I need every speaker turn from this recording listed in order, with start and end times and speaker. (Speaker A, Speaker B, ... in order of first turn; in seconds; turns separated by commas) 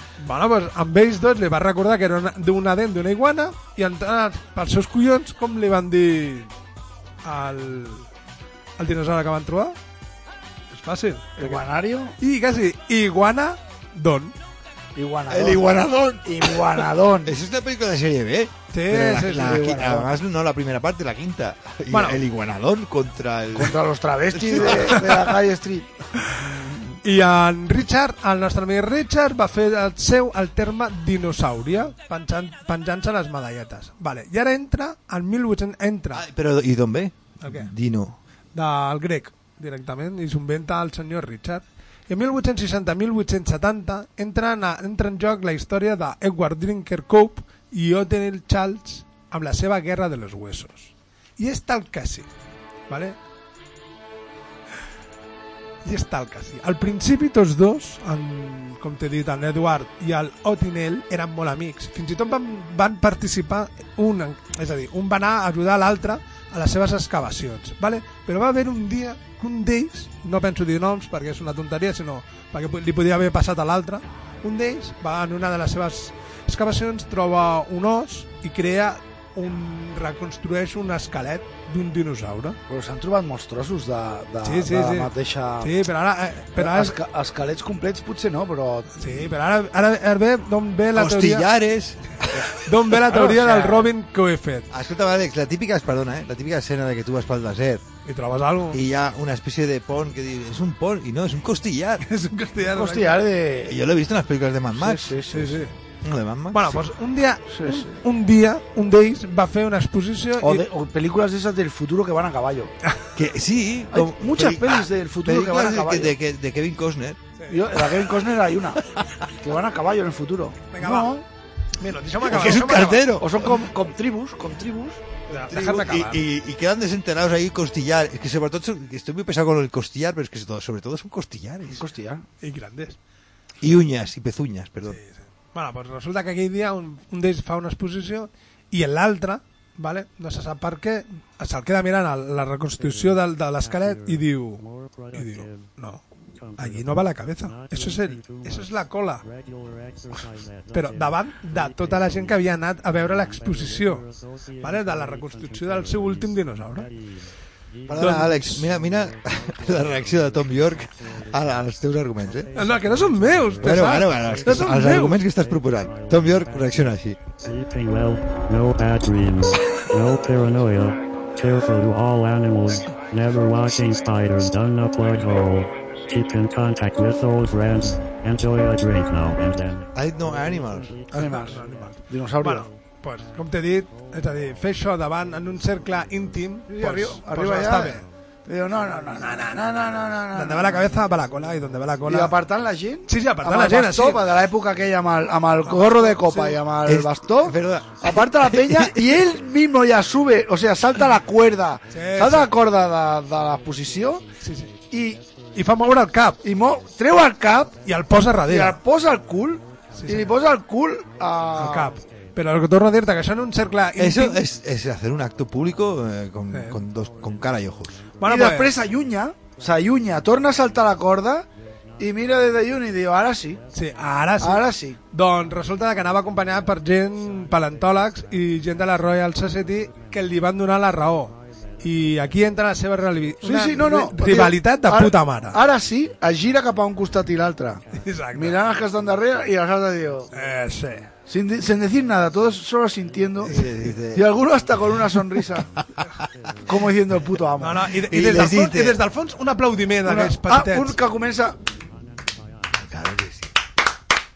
Speaker A: 0.2-6.5, Speaker A: 7.2-8.1, Speaker A: 8.8-9.8, Speaker A: 10.7-11.6, Speaker B: 11.4-12.1, Speaker A: 12.2-14.3, Speaker B: 14.9-17.3, Speaker C: 15.3-25.3, Speaker A: 18.7-19.7, Speaker B: 19.1-20.1, Speaker A: 21.9-22.2, Speaker B: 23.5-27.0, Speaker A: 27.0-36.2, Speaker C: 36.1-38.2, Speaker A: 37.4-37.7, Speaker A: 38.5-52.3, Speaker A: 52.9-53.2, Speaker A: 55.8-82.6, Speaker B: 82.7-85.8, Speaker A: 84.4-86.9, Speaker B: 86.6-89.3, Speaker A: 89.0-91.5, Speaker C: 90.9-92.5, Speaker A: 92.6-94.7, Speaker B: 92.9-93.9, Speaker C: 94.7-97.8, Speaker A: 98.0-98.8, Speaker C: 98.7-102.0, Speaker A: 102.0-103.2, Speaker B: 102.6-103.8, Speaker C: 103.6-105.4, Speaker B: 104.7-105.6, Speaker A: 105.3-105.7, Speaker C: 106.0-106.8, Speaker A: 106.5-110.6, Speaker B: 107.5-108.0, Speaker B: 110.4-112.7, Speaker C: 113.2-117.2, Speaker B: 113.9-116.1, Speaker A: 117.4-117.7, Speaker B: 117.5-118.8, Speaker C: 118.9-119.2, Speaker B: 119.4-121.2, Speaker A: 120.7-121.1, Speaker A: 121.8-123.1, Speaker C: 122.2-123.6, Speaker B: 123.2-125.0, Speaker A: 125.3-126.2, Speaker C: 125.3-131.8, Speaker B: 131.7-132.2, Speaker A: 132.4-133.0, Speaker C: 133.6-135.0, Speaker A: 134.8-146.0, Speaker D: 142.8-145.7, Speaker D: 146.3-181.9, Speaker A: 146.6-149.2, Speaker A: 150.7-154.1, Speaker A: 154.6-156.9, Speaker C: 157.9-162.5, Speaker A: 157.9-158.7, Speaker A: 162.5-165.2, Speaker C: 163.6-167.2, Speaker C: 179.9-181.2, Speaker B: 181.1-182.6, Speaker A: 181.1-188.0, Speaker B: 186.7-190.9, Speaker A: 189.1-192.3, Speaker B: 192.0-204.2, Speaker A: 193.1-194.2, Speaker A: 195.6-196.6, Speaker C: 196.8-199.2, Speaker A: 201.9-202.5, Speaker D: 201.9-202.4, Speaker D: 204.2-205.9, Speaker A: 204.4-204.7, Speaker B: 204.9-205.2, Speaker A: 205.5-206.4, Speaker B: 206.4-207.7, Speaker D: 207.7-208.1, Speaker A: 207.8-208.8, Speaker B: 208.5-212.0, Speaker D: 209.5-210.1, Speaker A: 209.9-210.3, Speaker A: 211.6-214.4, Speaker D: 211.9-212.4, Speaker D: 213.2-213.6, Speaker C: 214.0-218.0, Speaker A: 216.5-216.8, Speaker D: 217.1-218.2, Speaker A: 218.2-218.7, Speaker B: 218.2-221.5, Speaker B: 222.0-223.6, Speaker D: 223.7-224.2, Speaker A: 223.7-235.6, Speaker B: 224.4-225.0, Speaker D: 226.0-226.8, Speaker D: 227.3-227.9, Speaker D: 229.8-230.4, Speaker D: 231.3-232.3, Speaker B: 233.4-240.3, Speaker A: 237.9-238.6, Speaker A: 240.3-241.1, Speaker B: 241.3-245.7, Speaker A: 243.4-244.0, Speaker C: 243.4-244.3, Speaker B: 246.6-248.4, Speaker A: 247.6-251.0, Speaker C: 248.0-249.0, Speaker B: 250.0-251.6, Speaker D: 252.0-252.6, Speaker C: 252.8-253.5